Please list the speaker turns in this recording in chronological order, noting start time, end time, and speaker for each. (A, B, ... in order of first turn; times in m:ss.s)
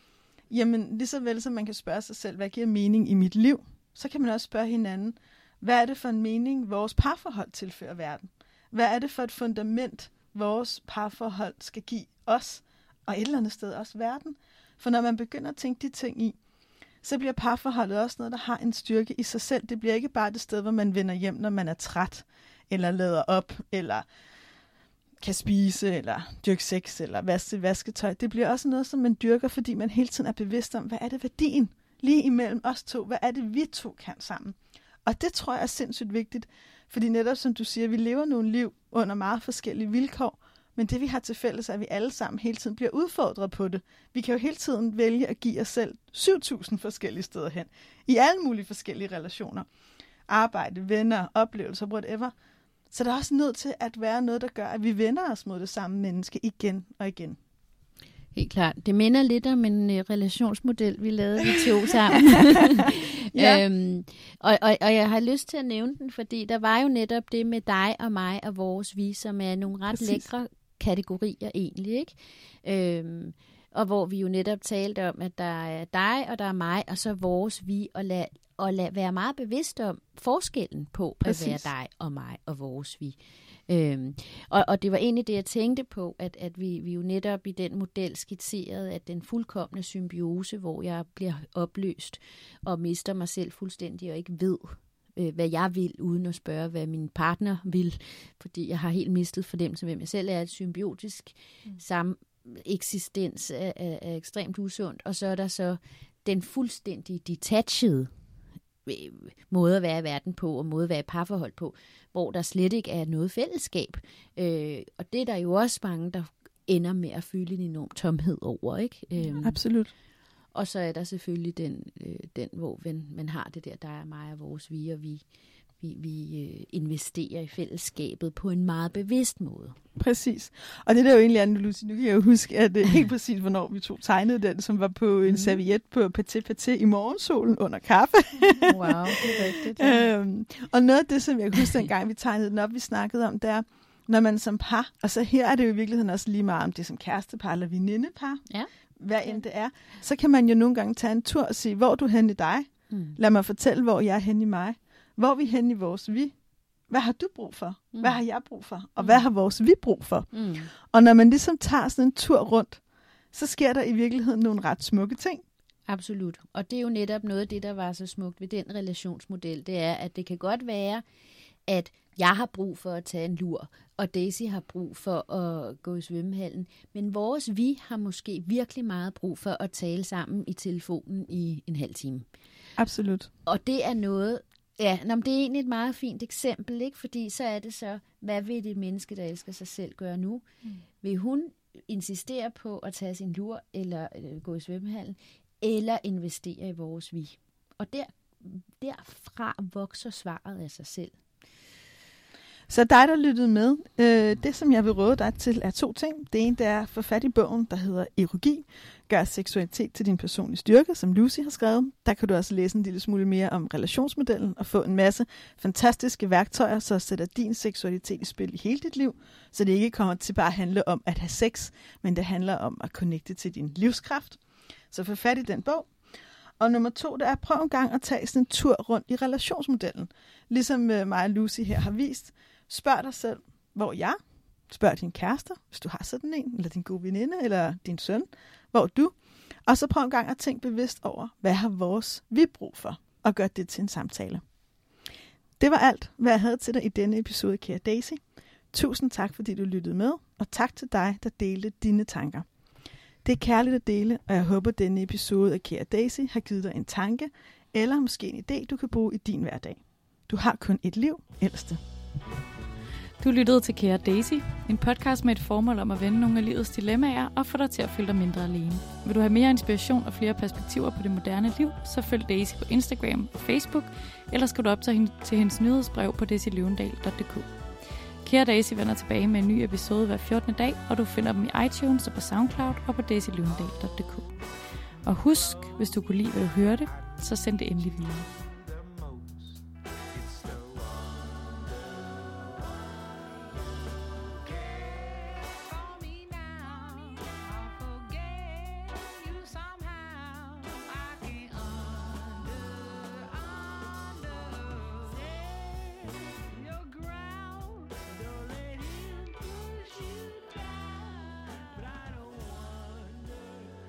0:00.5-0:16.4 A
0:17.0-0:24.0 A
0:25.2-0:49.7 A
0:50.3-0:52.3 A
0:52.9-0:57.4 A
0:58.3-1:23.2 B
1:03.3-1:03.6 A
1:09.9-1:10.2 A
1:21.2-1:21.7 A
1:23.7-1:48.1 B
1:48.9-1:59.6 B
1:59.4-1:59.9 A
2:00.5-2:05.2 B
2:05.8-2:09.8 B
2:10.0-2:28.4 A
2:15.3-2:15.6 B
2:18.6-2:20.0 B
2:29.0-2:36.3 A
2:32.9-2:33.2 B
2:36.9-2:42.8 A
2:40.3-2:40.7 B
2:43.3-2:45.4 A
2:45.9-2:51.0 B
2:51.7-3:02.3 B
3:02.8-3:03.3 A
3:03.5-3:10.4 B
3:11.0-3:21.2 B
3:22.7-3:44.4 A
3:44.9-3:45.9 A
3:46.6-3:54.2 A
3:54.7-4:04.4 A
4:05.6-4:08.2 A
4:08.7-4:12.5 A
4:13.2-4:21.8 A
4:23.2-4:37.5 C
4:38.2-4:44.4 C
4:45.0-4:48.3 C
4:55.2-5:11.9 C